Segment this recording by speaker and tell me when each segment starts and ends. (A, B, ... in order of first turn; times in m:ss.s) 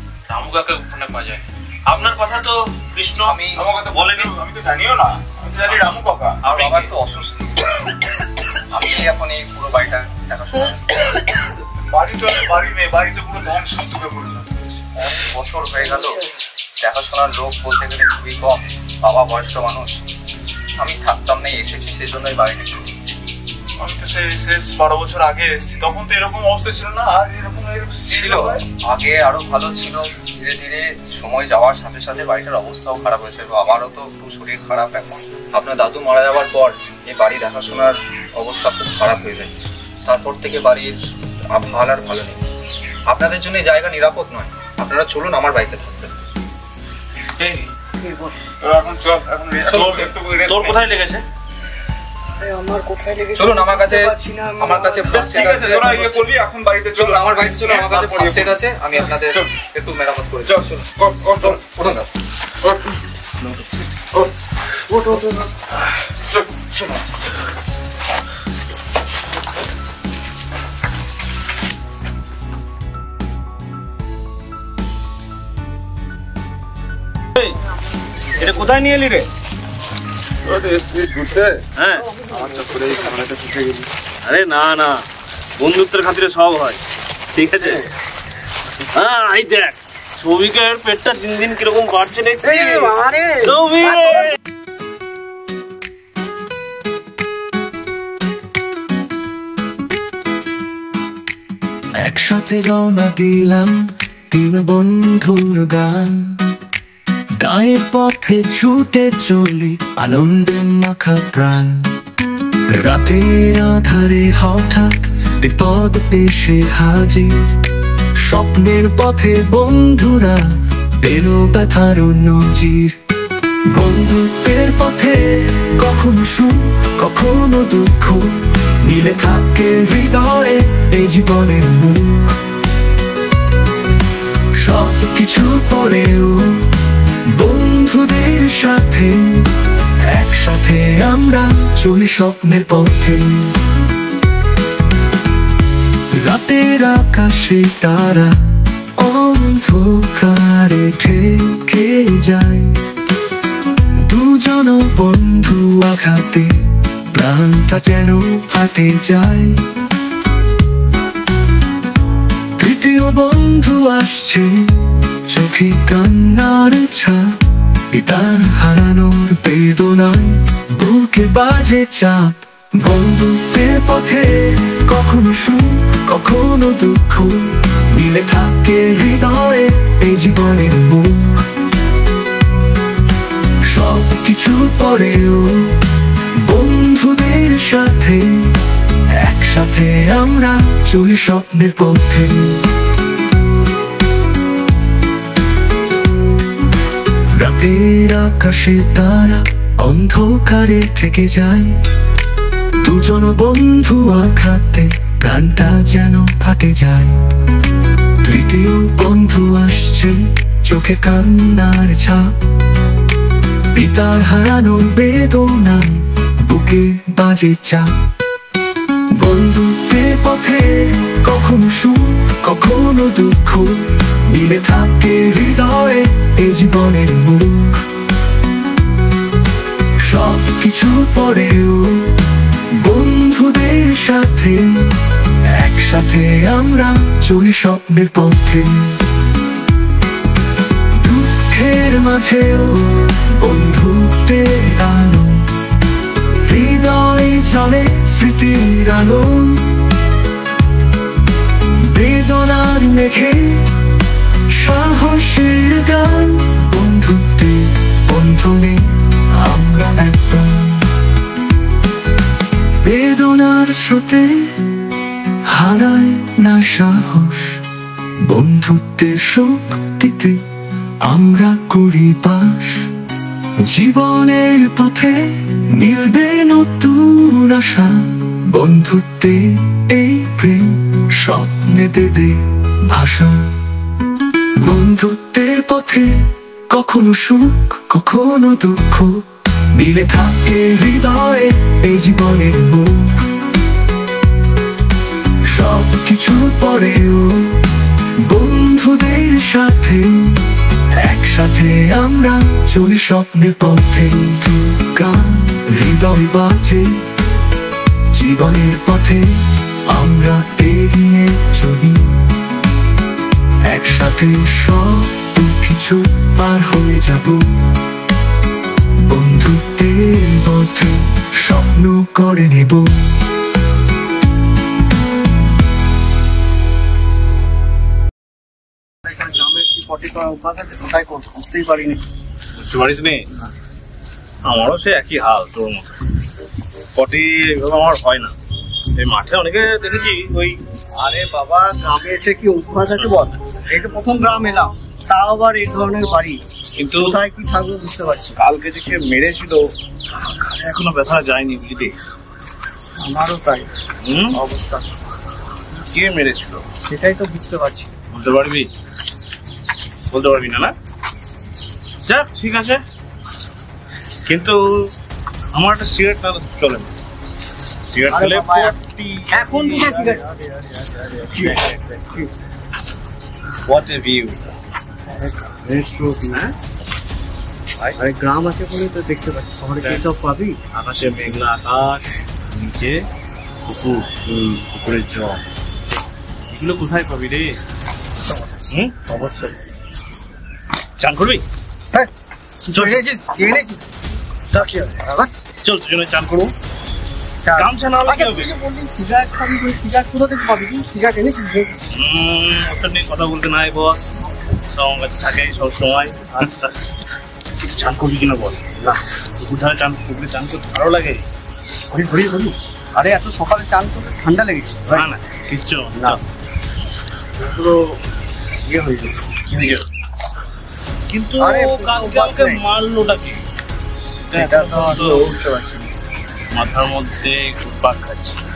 0:00.3-0:04.4 A
0:03.2-0:03.7 B
0:03.5-0:06.5 C
0:06.4-0:06.9 A
0:06.4-0:07.6 B
0:08.7-0:11.0 B
0:11.9-0:14.9 C
0:15.0-0:16.2 B
0:15.8-0:16.3 D
0:16.8-0:20.0 B
0:20.8-0:23.0 B
0:23.8-0:28.7 C
0:28.1-0:39.5 B
0:40.0-0:41.0 B
0:41.5-0:42.4 B
0:43.1-0:46.1 B
0:47.4-0:47.7 A
0:48.0-0:48.4 D
0:48.6-0:50.8 C
0:49.7-0:51.2 A
0:49.7-0:50.0 B
0:52.4-0:56.1 D
0:53.4-0:56.2 B
0:55.1-0:58.6 C
0:56.9-1:02.1 B
0:59.3-0:59.6 C
1:00.4-1:01.7 C
1:04.9-1:05.5 D
1:18.3-1:19.3 A
1:20.4-1:21.6 C
1:21.8-1:22.1 A
1:22.1-1:23.1 D
1:22.3-1:23.9 C
1:24.2-1:25.1 A
1:25.6-1:26.8 A
1:27.3-1:27.9 A
1:28.9-1:32.9 A
1:32.4-1:33.6 D
1:33.4-1:34.4 A
1:42.0-1:46.5 E
1:47.4-1:51.9 E
1:52.7-1:57.4 E
1:58.2-2:03.0 E
2:03.7-2:12.4 E
2:14.6-2:16.8 E
2:17.3-2:23.6 E
2:26.1-2:28.4 E
2:29.0-2:32.8 E
2:34.0-2:39.6 E
2:42.6-2:47.4 E
2:47.9-3:01.5 E
3:03.6-3:05.8 E
3:06.4-3:08.6 E
3:09.1-3:12.7 E
3:17.3-3:21.8 E
3:22.8-3:27.2 E
3:28.2-3:32.3 E
3:33.7-3:37.9 E
3:39.1-3:47.8 E
3:50.0-3:52.2 E
3:52.8-3:54.9 E
3:55.5-3:59.0 E
4:01.0-4:05.4 E
4:06.5-4:09.9 E
4:11.9-4:13.7 E
4:14.5-4:20.9 E
4:22.8-4:24.8 E
4:25.5-4:27.6 E
4:28.2-4:30.4 E
4:31.0-4:32.9 E
4:33.7-4:43.6 E
4:44.6-4:49.2 E
4:49.8-4:53.2 E
4:55.5-4:57.7 E
4:58.2-5:00.4 E
5:01.0-5:06.9 E
5:08.2-5:12.2 E
5:13.7-5:17.5 E
5:19.0-5:23.0 E
5:29.0-5:32.0 D
5:32.6-5:33.2 A
5:34.4-5:36.0 A
5:37.0-5:38.3 A
5:39.0-5:40.6 A
5:41.0-5:46.4 D
5:43.0-5:43.3 A
5:46.8-5:47.2 A
5:47.0-5:48.4 D
5:48.4-5:49.6 A
5:50.2-5:52.0 A
5:53.0-5:53.7 D
5:54.1-5:54.4 A
5:54.3-5:54.8 D
5:55.8-5:56.6 A
5:56.9-5:57.9 D
5:58.1-5:58.7 A
6:00.1-6:00.7 A
6:02.0-6:02.8 A
6:04.3-6:04.6 A
6:05.5-6:07.0 A
6:07.8-6:11.9 A
6:08.1-6:08.8 D
6:09.3-6:10.2 D
6:11.3-6:12.3 D
6:13.7-6:14.4 A
6:15.2-6:16.5 D
6:18.0-6:20.6 D
6:20.7-6:23.0 A
6:23.7-6:25.4 A
6:26.5-6:27.6 A
6:28.7-6:29.0 A
6:29.1-6:29.5 D
6:31.0-6:31.4 A
6:32.7-6:33.8 D
6:32.7-6:33.0 A
6:34.5-6:35.3 D
6:35.6-6:36.5 A
6:37.4-6:41.8 D
6:37.6-6:38.5 A
6:41.9-6:44.0 A
6:44.7-6:46.7 A
6:47.6-6:51.2 A
6:51.9-6:55.1 D
6:54.9-6:56.2 A
6:55.9-6:56.2 D
6:57.4-6:57.8 D
6:58.6-6:59.3 D
6:59.5-6:59.8 A
7:01.1-7:03.4 A
7:01.4-7:02.6 D
7:04.3-7:05.2 A
7:04.3-7:05.9 D
7:06.6-7:08.4 A